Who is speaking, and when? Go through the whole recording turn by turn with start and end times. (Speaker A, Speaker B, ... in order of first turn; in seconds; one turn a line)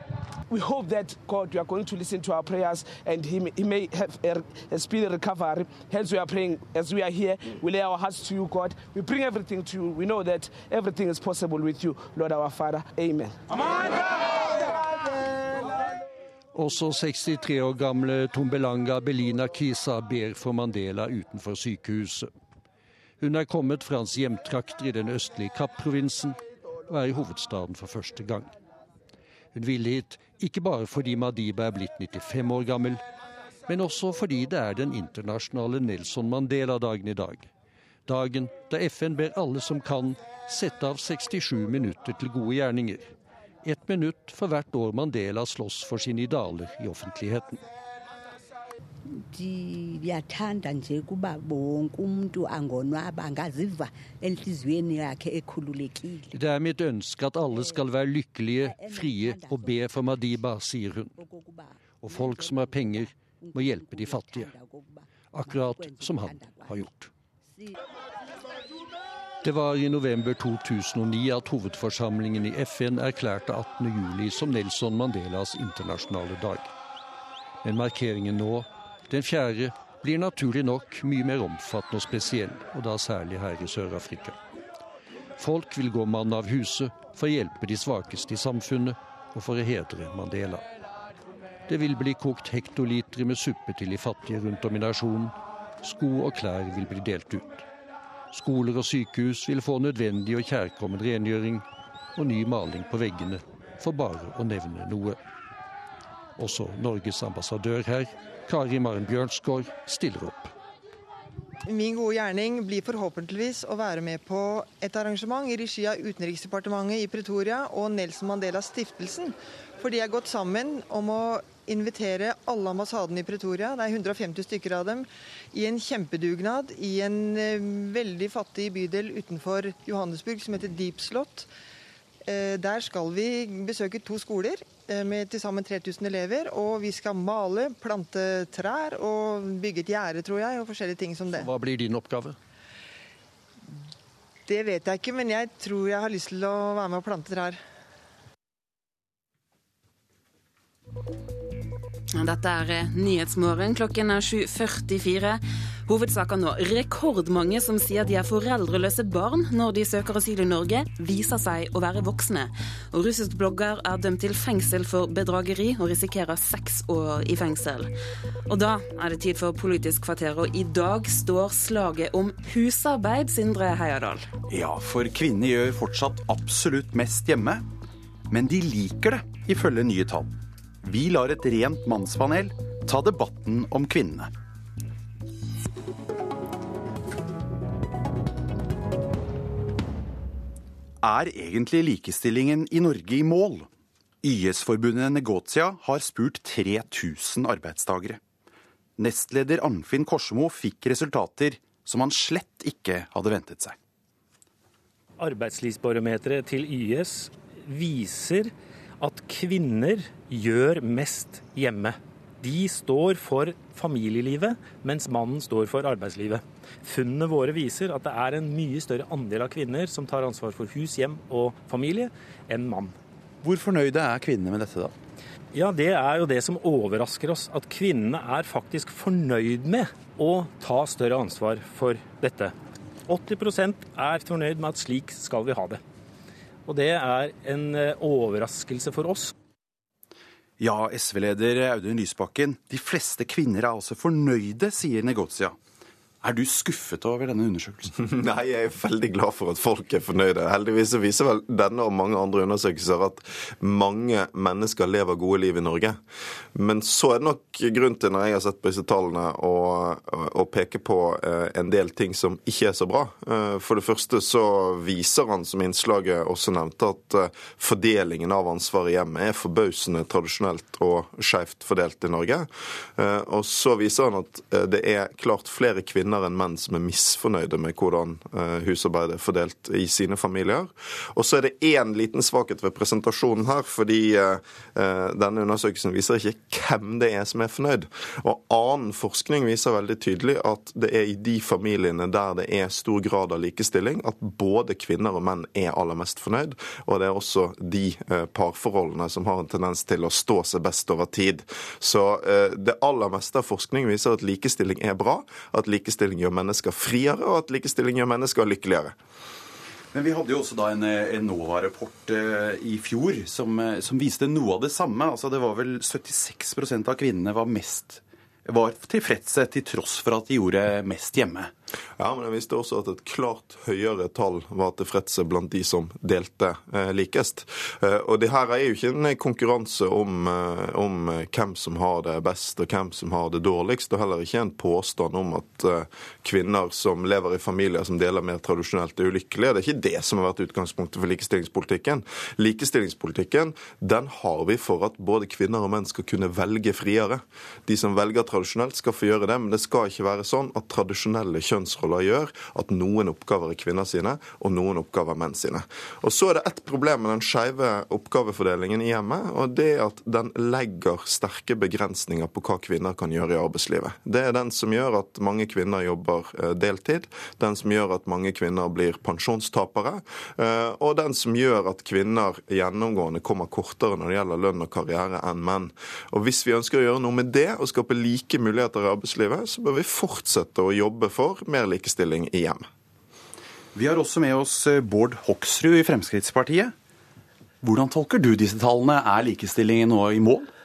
Speaker A: 0.5-13.3
Speaker B: 16.6-22.3
Speaker B: 23.2-26.4
Speaker B: 26.9-28.5
Speaker B: 29.5-33.0
Speaker B: 33.7-37.5
Speaker B: 38.1-43.1
Speaker B: 43.6-47.6
Speaker C: 49.3-56.4
Speaker B: 56.3-61.1
Speaker C: 57.5-57.9
Speaker C: 58.6-60.5
Speaker C: 61.1-66.9
Speaker B: 62.0-64.5
Speaker B: 65.3-67.1
Speaker C: 67.5-67.8
Speaker B: 69.4-76.7
Speaker B: 77.6-84.4
Speaker B: 85.4-90.7
Speaker B: 91.7-97.7
Speaker B: 98.3-105.2
Speaker B: 106.4-110.5
Speaker D: 111.7-131.5
Speaker D: 132.3-141.5
Speaker B: 141.3-142.4
Speaker D: 144.5-147.6
Speaker E: 152.2-167.9
Speaker E: 168.5-174.3
Speaker F: 174.5-177.7
Speaker F: 178.3-184.3
Speaker F: 191.0-193.7
Speaker F: 194.2-198.2
Speaker F: 199.0-203.8
Speaker G: 205.2-222.9
Speaker F: 223.4-224.9
Speaker G: 225.5-232.6
Speaker G: 233.1-235.8
Speaker G: 236.7-239.3
Speaker F: 240.6-245.6
Speaker F: 246.2-247.9
Speaker H: 248.0-256.0
Speaker H: 256.6-308.9
Speaker F: 309.9-321.5
Speaker H: 322.0-382.7
Speaker F: 383.8-386.7
Speaker F: 387.6-390.5